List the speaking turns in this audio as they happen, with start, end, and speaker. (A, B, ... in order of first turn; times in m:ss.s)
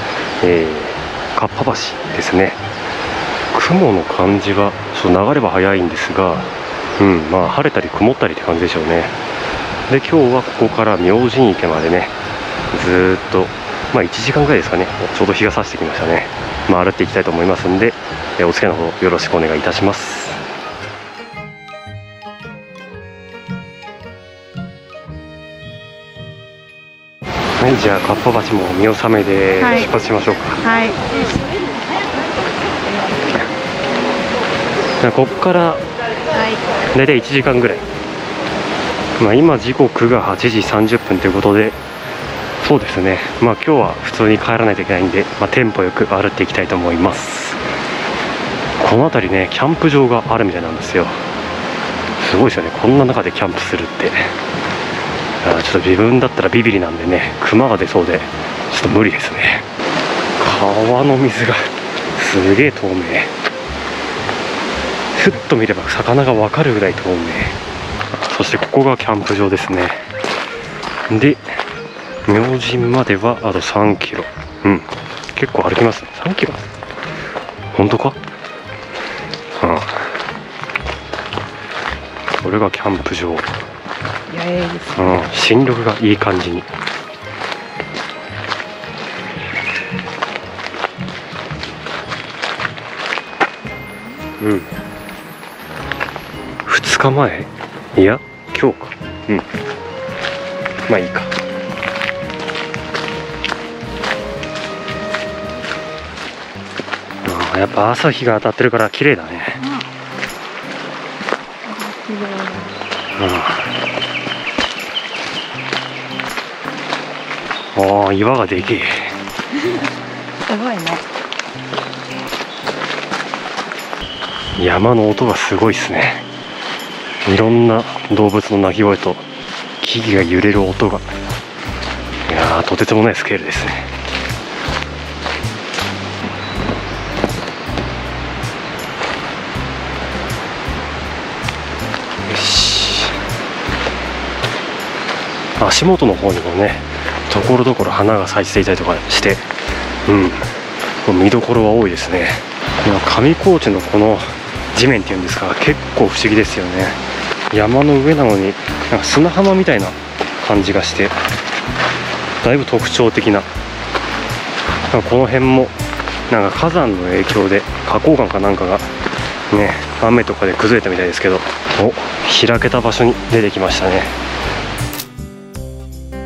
0:00.4-0:02.6 A
0:03.5-0:09.2 A
0:09.9-0:12.2 A
0:12.7-0:20.4 A
0:27.6-0:30.6 A
0:29.6-0:29.9 B
0:30.6-0:31.0 B
0:35.0-0:35.8 A
0:36.3-0:36.6 B
0:36.9-0:37.8 A
0:39.2-0:41.8 A
0:42.6-0:47.6 A
0:48.8-0:51.2 A
0:52.2-0:54.3 A
0:55.4-0:59.7 A
1:00.4-1:03.3 A
1:05.1-1:07.6 A
1:08.1-1:10.0 A
1:11.1-1:11.4 A
1:12.3-1:16.7 A
1:17.7-1:18.2 A
1:19.6-1:20.0 A
1:22.4-1:23.5 A
1:24.3-1:25.2 B
1:25.0-1:26.7 A
1:34.4-1:34.7 A
1:36.7-1:39.4 A
1:40.9-1:41.3 A
1:47.2-1:49.6 A
1:51.6-1:52.8 B
1:53.2-1:53.7 A
1:57.8-1:59.1 A
2:00.5-2:01.0 B
2:04.6-2:06.2 A
2:07.3-2:09.2 A
2:09.8-2:11.1 A
2:12.3-2:13.9 A
2:22.3-2:23.2 A
2:25.6-2:29.5 A
2:30.1-2:30.4 A
2:31.0-2:37.0 A
2:37.5-2:41.2 A
2:42.4-2:43.5 A
2:44.9-2:45.8 A
2:46.3-2:48.9 A
2:49.5-2:54.1 A